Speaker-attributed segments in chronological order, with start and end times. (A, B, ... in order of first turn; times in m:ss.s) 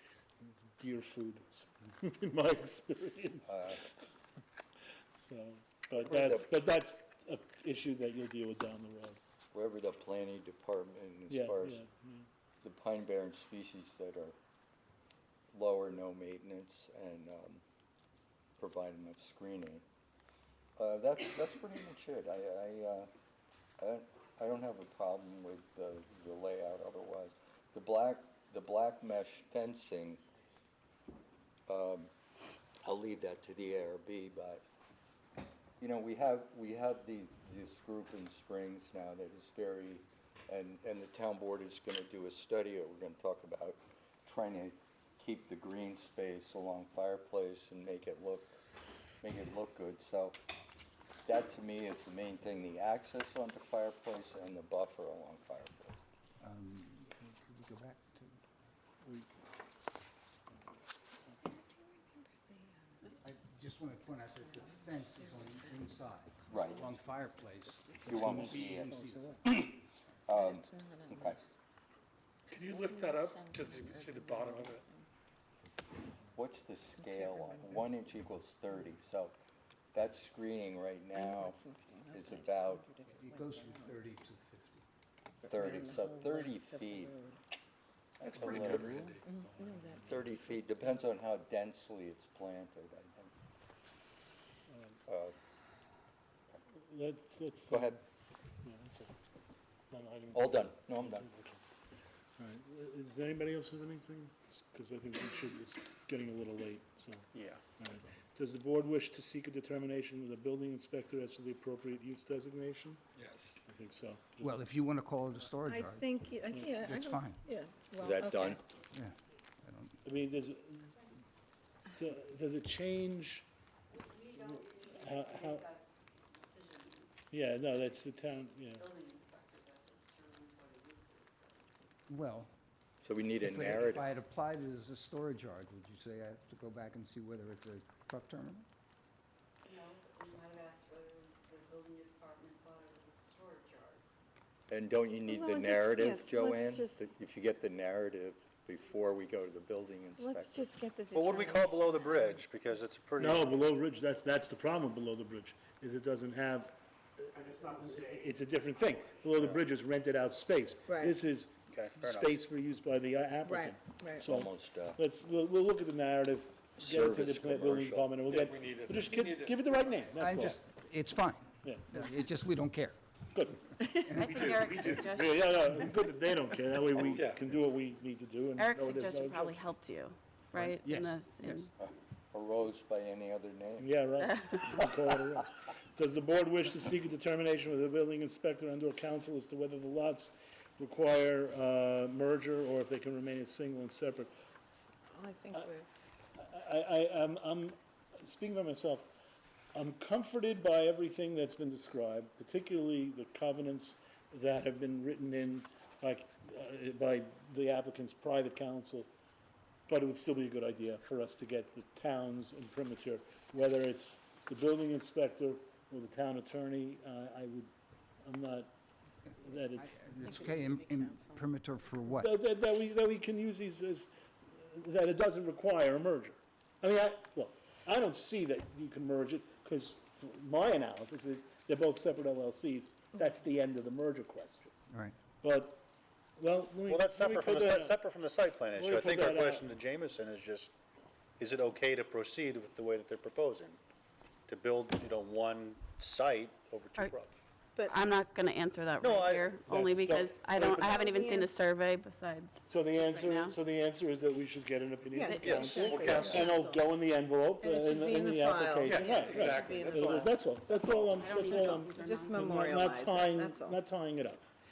0:00.4-0:03.9 A
0:03.5-0:03.8 B
0:05.2-0:09.2 A
0:06.0-0:06.5 B
0:09.5-0:11.8 B
0:11.3-0:12.3 A
0:12.6-0:14.4 B
0:15.5-0:17.6 B
0:18.6-0:19.8 B
0:20.8-0:23.1 B
0:23.8-0:30.2 B
0:31.7-0:32.1 B
0:32.8-0:34.6 B
0:35.8-0:48.6 B
0:49.2-0:50.4 B
0:51.2-0:56.0 B
0:56.4-0:58.4 C
1:01.4-1:03.2 D
1:03.2-1:09.6 C
1:04.5-1:05.9 D
1:06.4-1:08.1 D
1:06.5-1:06.9 B
1:08.0-1:11.5 B
1:08.1-1:09.2 A
1:08.9-1:09.4 D
1:10.3-1:11.4 D
1:12.5-1:14.8 E
1:12.6-1:15.0 D
1:16.3-1:19.4 B
1:17.0-1:17.9 D
1:19.9-1:21.6 B
1:21.1-1:24.0 D
1:22.1-1:22.8 B
1:23.0-1:24.8 C
1:25.4-1:27.4 D
1:25.5-1:27.2 B
1:28.2-1:29.2 B
1:28.2-1:29.4 E
1:29.2-1:30.4 D
1:29.6-1:30.2 A
1:30.0-1:33.3 B
1:34.7-1:35.0 A
1:35.1-1:35.4 B
1:36.9-1:38.0 A
1:37.7-1:38.0 B
1:38.6-1:39.1 A
1:39.9-1:41.6 A
1:40.3-1:41.3 B
1:42.4-1:47.3 A
1:47.8-1:53.0 A
1:53.2-1:53.6 E
1:53.6-1:54.6 A
1:54.4-1:56.1 C
1:55.6-1:58.6 D
1:56.5-1:56.8 A
1:56.6-1:57.4 C
1:58.0-1:58.6 B
1:58.9-2:00.0 C
2:00.0-2:01.0 A
2:02.0-2:03.4 A
2:03.9-2:07.2 F
2:04.3-2:05.7 A
2:07.3-2:08.9 A
2:08.8-2:11.8 F
2:12.1-2:12.5 C
2:13.0-2:14.0 B
2:13.4-2:18.6 C
2:19.6-2:24.0 F
2:24.7-2:30.8 B
2:25.2-2:27.1 D
2:30.2-2:32.4 D
2:31.1-2:33.5 G
2:33.2-2:50.6 A
2:40.9-2:41.2 D
2:41.7-2:42.3 G
2:43.4-2:44.3 D
2:44.2-2:45.0 B
2:46.8-2:48.2 B
2:48.3-2:50.1 E
2:50.1-2:53.0 C
2:51.6-2:52.5 A
2:53.3-2:59.6 A
2:54.0-2:54.8 C
2:54.2-2:55.5 H
2:54.3-2:55.1 E
2:57.0-2:57.5 E
2:58.6-3:01.7 H
3:00.5-3:01.6 C
3:01.8-3:03.9 B
3:03.8-3:14.3 A
3:15.1-3:15.8 D
3:16.4-3:19.1 A
3:19.7-3:29.1 A
3:29.9-3:37.7 A
3:38.2-3:38.7 A
3:39.4-3:40.6 A
3:39.8-3:42.4 C
3:40.4-3:41.5 D
3:42.1-3:54.7 A
3:54.9-3:55.2 C
3:55.4-3:55.8 A
3:56.4-3:58.0 A
3:56.9-4:00.7 G
3:58.7-3:59.6 A
4:01.4-4:03.8 G
4:04.5-4:07.3 G
4:07.8-4:13.6 H
4:09.0-4:09.5 G
4:09.7-4:11.0 A
4:10.6-4:11.5 D
4:12.7-4:24.4 A
4:15.1-4:16.8 D
4:15.3-4:15.6 H
4:15.4-4:16.5 E
4:16.2-4:16.4 B
4:17.6-4:20.3 D
4:18.8-4:21.3 E
4:21.2-4:22.8 H
4:21.6-4:23.8 D